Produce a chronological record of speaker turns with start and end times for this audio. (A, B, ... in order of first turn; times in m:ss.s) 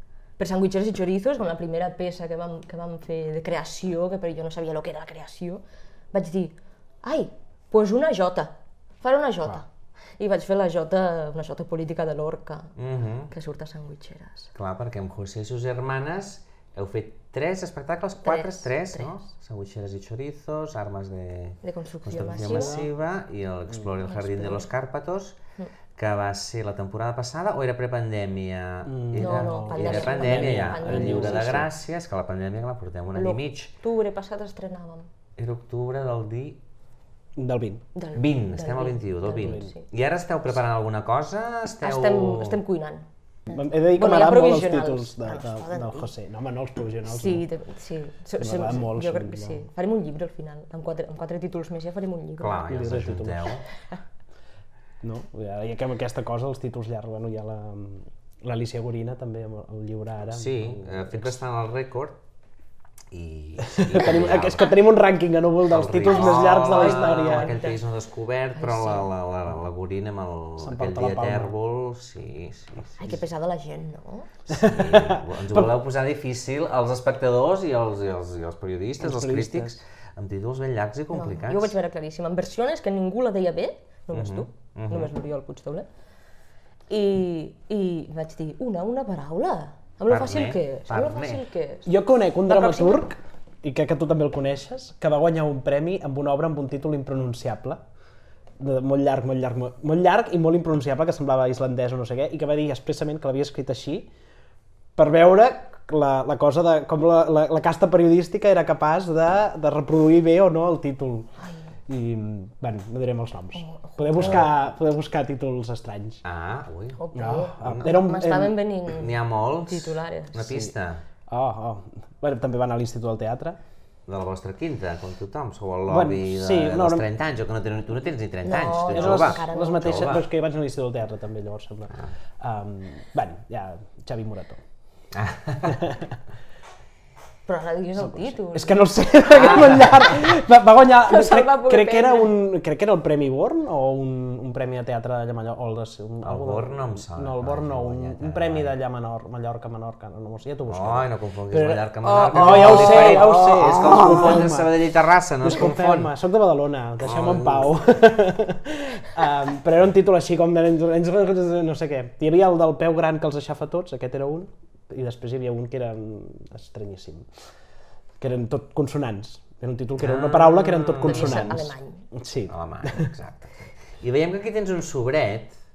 0:00.4-0:12.7 A
0:12.8-0:13.3 B
0:13.3-0:14.5 A
0:14.5-0:25.4 B
0:18.2-0:19.2 A
0:21.6-0:22.8 A
0:22.3-0:22.9 C
0:24.0-0:24.7 A
0:26.0-0:33.7 B
0:28.8-0:31.7 C
0:29.2-0:31.6 A
0:33.1-0:35.1 A
0:35.4-0:36.6 B
0:37.4-0:37.8 C
0:37.9-0:39.8 A
0:38.1-0:42.6 B
0:39.4-0:39.7 C
0:41.8-0:43.0 A
0:43.5-0:47.4 C
0:44.0-0:46.1 A
0:47.1-0:52.6 A
0:48.4-0:49.6 C
0:52.4-0:53.6 B
0:52.7-0:53.5 C
0:55.0-1:01.3 C
1:00.3-1:02.2 B
1:03.1-1:04.7 B
1:03.6-1:07.6 C
1:05.7-1:13.1 B
1:06.1-1:07.8 A
1:08.5-1:09.1 A
1:10.6-1:11.5 C
1:13.0-1:14.3 A
1:14.5-1:21.7 B
1:14.5-1:15.7 C
1:19.0-1:19.8 C
1:21.1-1:25.9 A
1:24.1-1:25.1 B
1:26.9-1:31.9 A
1:30.1-1:31.4 B
1:31.8-1:37.8 C
1:32.4-1:33.0 A
1:38.6-1:44.1 C
1:45.0-1:51.3 C
1:51.4-1:51.7 A
1:51.9-1:56.2 C
1:53.5-1:54.5 A
1:54.2-1:54.5 B
1:56.2-1:57.0 B
1:57.0-2:00.6 A
1:57.1-1:58.6 C
1:57.6-1:57.9 B
1:58.9-2:01.0 B
2:01.3-2:03.6 C
2:04.1-2:10.2 B
2:05.9-2:07.1 C
2:08.4-2:10.1 A
2:08.9-2:14.6 C
2:15.1-2:15.8 B
2:15.6-2:16.1 C
2:17.5-2:19.7 A
2:18.0-2:34.7 C
2:19.3-2:20.1 B
2:21.1-2:22.3 A
2:26.2-2:28.7 B
2:30.7-2:36.1 B
2:32.0-2:33.5 A
2:35.4-2:47.3 C
2:37.0-2:37.8 B
2:48.2-2:53.1 C
2:50.0-2:51.6 B
2:51.0-2:52.0 A
2:52.5-2:55.6 B